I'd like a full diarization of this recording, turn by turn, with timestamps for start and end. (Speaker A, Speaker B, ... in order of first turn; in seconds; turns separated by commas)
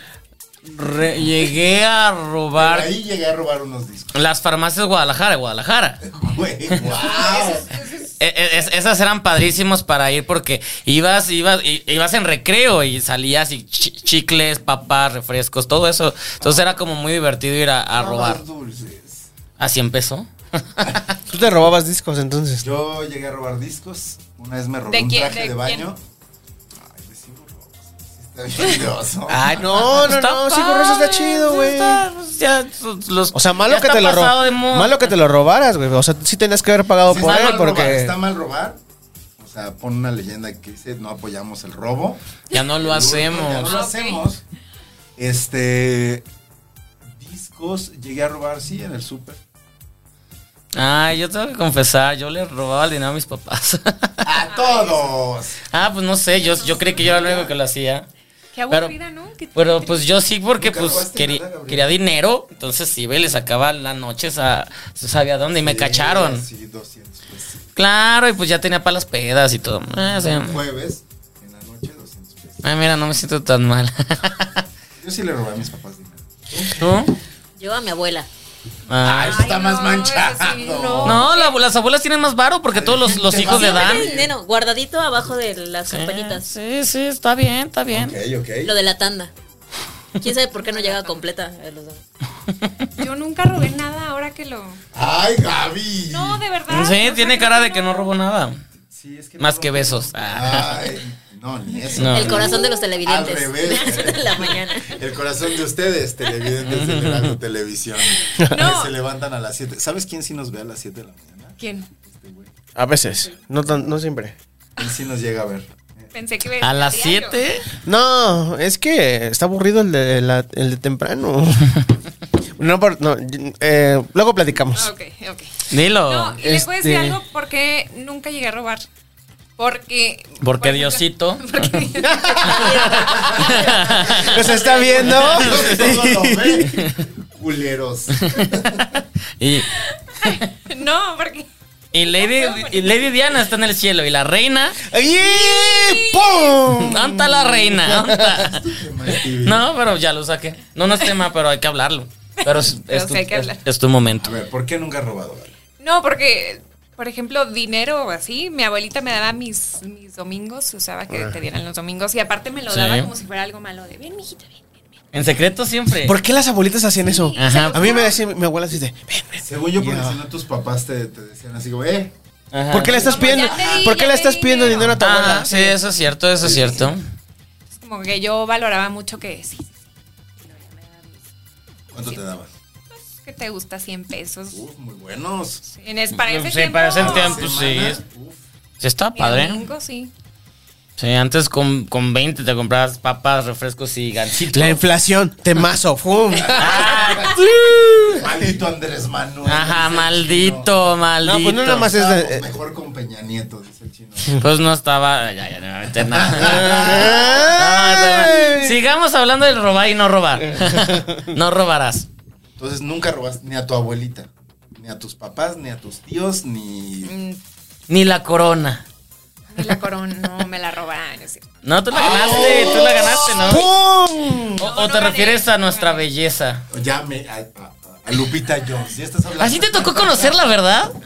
Speaker A: 0.7-2.9, Speaker B: 2.6-4.2, Speaker A: 4.1-6.0, Speaker B: 6.0-7.7, Speaker C: 6.8-8.2, Speaker A: 8.2-18.4, Speaker B: 16.4-16.8, Speaker B: 17.9-19.3, Speaker A: 19.6-21.1, Speaker D: 21.3-22.7, Speaker B: 22.6-26.0, Speaker C: 24.9-25.9, Speaker B: 26.8-30.1, Speaker D: 29.3-32.1, Speaker A: 29.9-35.1, Speaker D: 33.3-38.2, Speaker B: 37.0-38.8, Speaker B: 39.4-42.2, Speaker A: 42.5-43.8, Speaker B: 42.7-44.4, Speaker C: 43.6-44.2, Speaker B: 45.2-46.2, Speaker B: 47.2-49.4, Speaker A: 50.7-54.2, Speaker B: 54.2-55.6, Speaker C: 54.5-55.1, Speaker A: 55.7-58.1, Speaker C: 56.3-57.2, Speaker B: 57.0-57.5, Speaker C: 58.5-60.0, Speaker A: 59.5-66.5, Speaker B: 60.6-61.9, Speaker B: 65.6-67.6, Speaker A: 67.8-70.6, Speaker B: 70.0-72.7, Speaker A: 72.6-74.6, Speaker B: 75.0-76.8, Speaker A: 76.8-77.1, Speaker E: 77.6-78.3, Speaker A: 78.9-79.5, Speaker B: 79.0-81.3, Speaker C: 79.1-81.6, Speaker A: 81.0-84.1, Speaker B: 82.7-84.3, Speaker E: 83.4-86.5, Speaker A: 85.9-88.2, Speaker B: 87.9-88.7, Speaker E: 88.6-89.3, Speaker E: 90.2-92.0, Speaker C: 90.5-91.2, Speaker C: 93.0-94.8, Speaker B: 94.9-96.4, Speaker C: 96.1-98.2, Speaker A: 96.7-98.6, Speaker B: 98.9-112.5, Speaker A: 99.4-100.8, Speaker A: 102.0-102.6, Speaker E: 102.1-105.0, Speaker A: 106.6-107.4, Speaker C: 108.4-108.9, Speaker C: 111.6-111.9, Speaker D: 112.8-114.3, Speaker B: 113.6-114.0, Speaker B: 114.8-116.1, Speaker C: 116.1-117.4, Speaker A: 116.6-117.7, Speaker D: 117.8-121.8, Speaker D: 122.6-124.9, Speaker C: 124.8-128.9, Speaker A: 125.7-126.4, Speaker D: 126.4-127.2, Speaker C: 129.6-135.4, Speaker A: 130.4-131.9, Speaker D: 132.1-132.9, Speaker B: 132.3-134.3, Speaker A: 132.4-134.4, Speaker D: 134.2-136.7, Speaker A: 135.0-137.0, Speaker B: 135.2-139.0, Speaker A: 138.2-139.7, Speaker C: 139.7-143.0, Speaker A: 141.9-144.8, Speaker D: 144.8-148.2, Speaker C: 145.2-146.6, Speaker A: 146.7-154.4, Speaker B: 148.1-149.7, Speaker C: 152.4-153.6, Speaker B: 154.2-155.5, Speaker C: 155.8-164.8, Speaker A: 162.7-163.1, Speaker A: 165.1-166.2, Speaker D: 166.0-170.2, Speaker C: 167.0-168.2, Speaker A: 167.4-168.0, Speaker B: 169.4-172.1, Speaker A: 172.5-173.4, Speaker D: 172.7-175.8, Speaker B: 172.8-173.8, Speaker C: 172.9-175.1, Speaker A: 175.0-177.0, Speaker B: 176.4-176.9, Speaker C: 177.7-179.8, Speaker C: 180.4-181.2, Speaker B: 181.9-182.5, Speaker C: 182.9-184.6, Speaker B: 184.5-185.6, Speaker C: 185.7-187.5, Speaker A: 186.1-188.0, Speaker B: 187.0-188.4, Speaker A: 188.8-189.6, Speaker C: 189.2-190.1, Speaker A: 191.0-194.8, Speaker D: 194.5-198.4, Speaker A: 196.5-197.5, Speaker B: 198.1-200.7, Speaker A: 199.4-201.9, Speaker D: 201.2-202.5, Speaker B: 201.8-204.4, Speaker A: 204.4-212.1, Speaker B: 206.0-207.5, Speaker D: 206.4-208.8, Speaker D: 210.4-211.3, Speaker B: 212.6-217.1, Speaker C: 217.0-217.4, Speaker A: 217.9-218.8, Speaker C: 219.5-221.5, Speaker A: 221.6-223.7, Speaker B: 221.9-224.4, Speaker D: 222.2-224.6, Speaker A: 224.6-226.7, Speaker C: 224.6-226.1, Speaker B: 226.7-230.3, Speaker A: 229.4-230.9